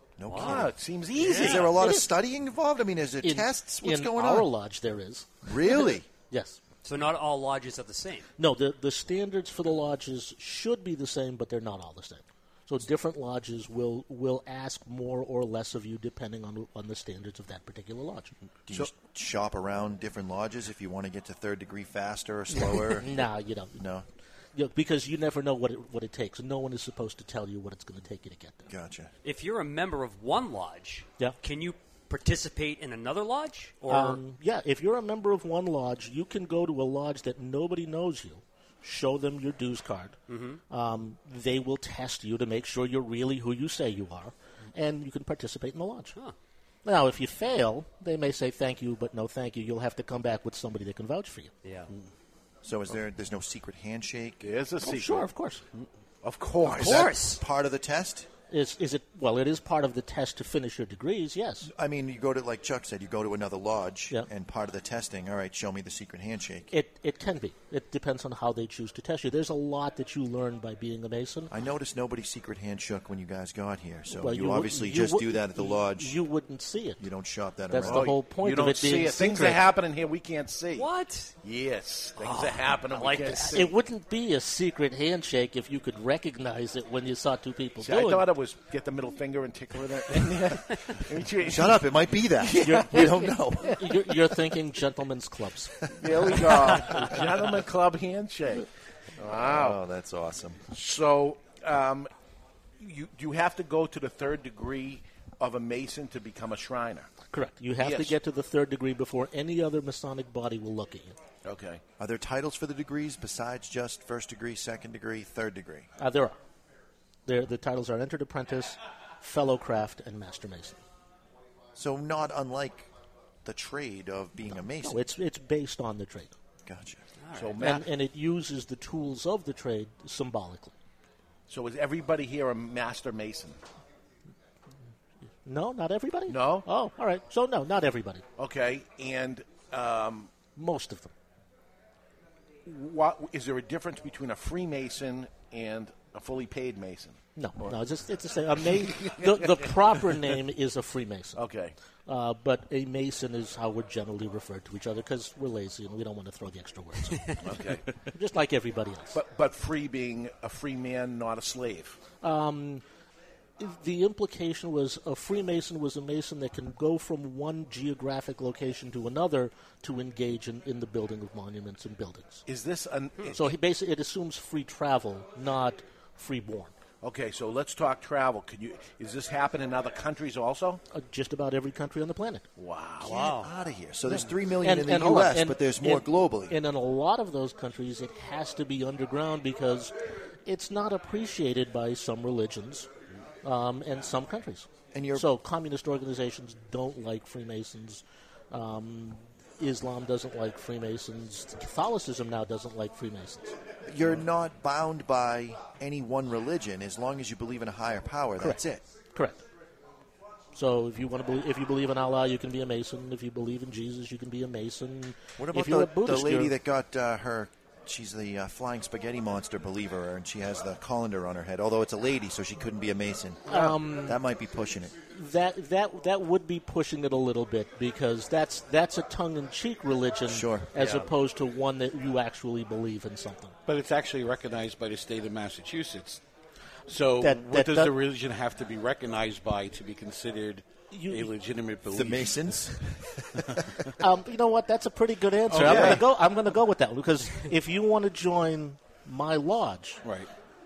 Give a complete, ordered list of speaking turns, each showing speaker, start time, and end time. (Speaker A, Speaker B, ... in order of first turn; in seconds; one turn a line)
Speaker A: 0.2-0.7
Speaker B: 0.3-1.8
Speaker C: 0.4-1.8
Speaker A: 1.3-4.5
Speaker D: 1.8-2.1
Speaker D: 3.2-6.6
Speaker A: 5.4-6.1
Speaker B: 6.8-8.3
Speaker D: 8.4-18.3
Speaker A: 18.7-23.1
Speaker D: 22.5-23.8
Speaker A: 23.8-24.0
Speaker D: 24.5-28.7
Speaker A: 28.7-29.1
Speaker B: 29.2-34.2
Speaker D: 33.9-40.2
Speaker B: 40.3-40.6
Speaker D: 40.7-46.1
Speaker D: 46.8-51.5
Speaker B: 51.6-51.9
Speaker A: 52.6-54.5
Speaker C: 54.4-55.3
Speaker D: 54.8-55.6
Speaker C: 56.2-57.1
Speaker A: 56.7-58.3
Speaker B: 56.8-57.4
Speaker D: 58.5-61.7
Speaker A: 61.6-66.7
Speaker D: 66.7-71.5
Speaker A: 71.5-76.2
Speaker D: 74.1-77.0
Speaker A: 77.0-78.1
Speaker D: 77.7-79.6
Speaker C: 77.8-80.9
Speaker B: 80.7-81.3
Speaker C: 81.4-83.7
Speaker B: 82.2-83.7
Speaker D: 83.5-88.3
Speaker C: 87.8-91.8
Speaker A: 91.4-93.8
Speaker C: 92.4-93.9
Speaker D: 92.6-95.8
Speaker C: 96.0-98.7
Speaker C: 99.2-99.8
Speaker A: 99.3-100.6
Speaker C: 100.7-102.1
Speaker C: 102.8-107.1
Speaker D: 107.3-111.2
Speaker C: 107.8-108.2
Speaker C: 111.4-111.8
Speaker A: 112.0-115.9
Speaker D: 116.0-116.4
Speaker D: 117.2-120.8
Speaker A: 121.8-122.9
Speaker A: 123.4-125.0
Speaker D: 124.7-126.3
Speaker A: 126.6-127.0
Speaker B: 127.2-127.6
Speaker C: 127.3-127.9
Speaker D: 127.6-130.7
Speaker C: 131.5-133.6
Speaker D: 135.4-138.2
Speaker C: 136.3-136.7
Speaker C: 138.4-140.4
Speaker D: 140.5-141.1
Speaker C: 142.7-147.7
Speaker D: 147.3-151.4
Speaker C: 148.9-149.5
Speaker C: 151.3-151.7
Speaker D: 152.1-157.2
Speaker C: 157.4-157.8
Speaker D: 158.1-159.2
Speaker C: 159.1-162.0
Speaker D: 162.2-162.8
Speaker D: 163.6-172.4
Speaker C: 172.5-173.4
Speaker D: 173.3-176.7
Speaker C: 177.0-180.8
Speaker D: 180.9-182.4
Speaker C: 182.6-183.3
Speaker B: 183.0-183.5
Speaker A: 183.3-186.6
Speaker D: 184.6-189.9
Speaker D: 190.4-192.9
Speaker D: 193.4-203.6
Speaker A: 194.9-195.3
Speaker A: 203.8-208.8
Speaker D: 209.1-209.4
Speaker D: 210.5-216.5
Speaker A: 215.4-225.0
Speaker D: 223.5-224.2
Speaker C: 223.5-223.8
Speaker D: 225.1-233.6
Speaker A: 230.3-230.8
Speaker B: 230.8-231.1
Speaker E: 233.7-236.2
Speaker E: 236.9-242.4
Speaker D: 237.2-237.9
Speaker D: 240.9-241.3
Speaker A: 241.9-243.4
Speaker D: 244.0-250.0
Speaker C: 245.5-246.0
Speaker E: 245.6-245.9
Speaker E: 250.0-250.3